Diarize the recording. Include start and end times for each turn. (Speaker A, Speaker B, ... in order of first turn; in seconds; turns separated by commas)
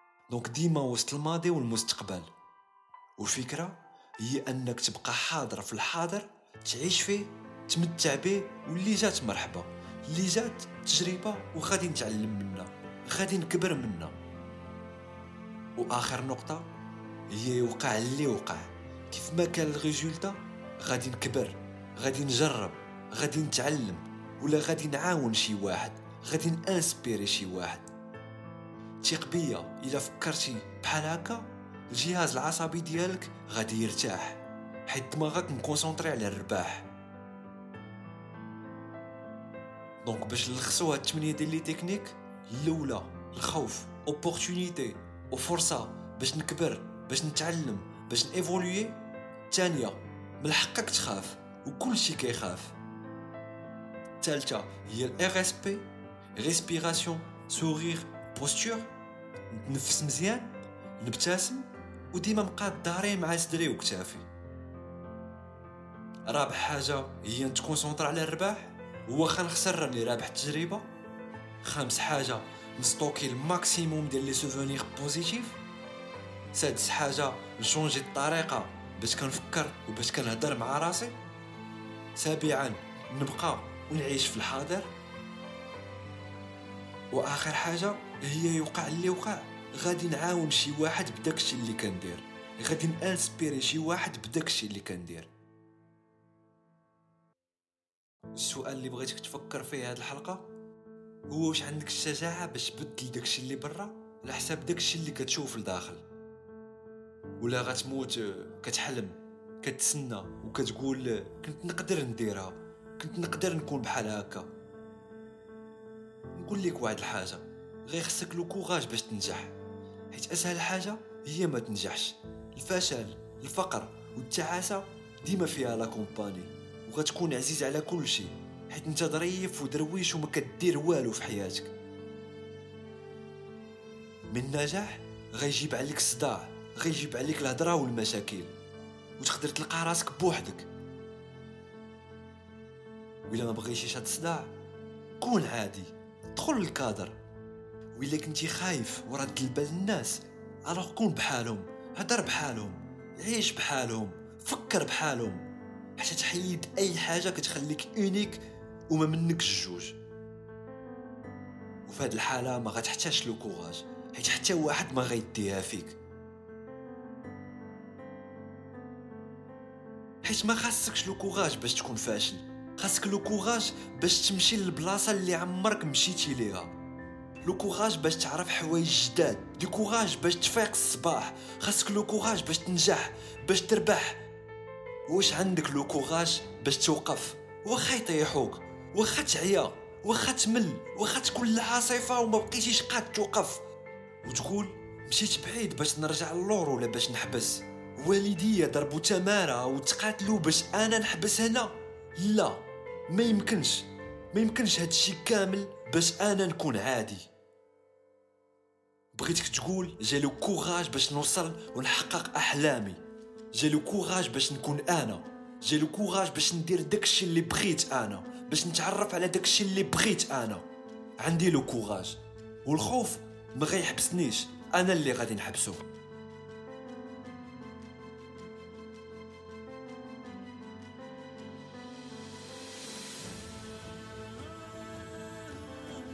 Speaker A: 0.3-2.3, Speaker A: 3.2-14.1, Speaker A: 15.8-16.6, Speaker A: 17.3-27.9, Speaker A: 29.0-36.9, Speaker A: 40.0-49.0, Speaker A: 49.5-52.7, Speaker A: 54.2-58.9, Speaker A: 59.5-64.3, Speaker A: 66.2-70.9, Speaker A: 71.6-75.6, Speaker A: 76.5-81.2, Speaker A: 82.2-84.9, Speaker A: 87.1-95.3, Speaker A: 98.3-100.5, Speaker A: 101.3-106.0, Speaker A: 107.4-114.5, Speaker A: 116.3-119.5, Speaker A: 120.1-131.7, Speaker A: 134.3-138.5, Speaker A: 139.2-140.7, Speaker A: 143.3-144.5, Speaker A: 145.2-147.2, Speaker A: 147.9-155.4, Speaker A: 156.0-159.9, Speaker A: 161.8-166.0, Speaker A: 170.2-176.7, Speaker A: 177.4-184.2, Speaker A: 185.1-193.6, Speaker A: 194.2-207.3, Speaker A: 209.1-213.0, Speaker A: 213.5-220.6, Speaker A: 221.2-225.8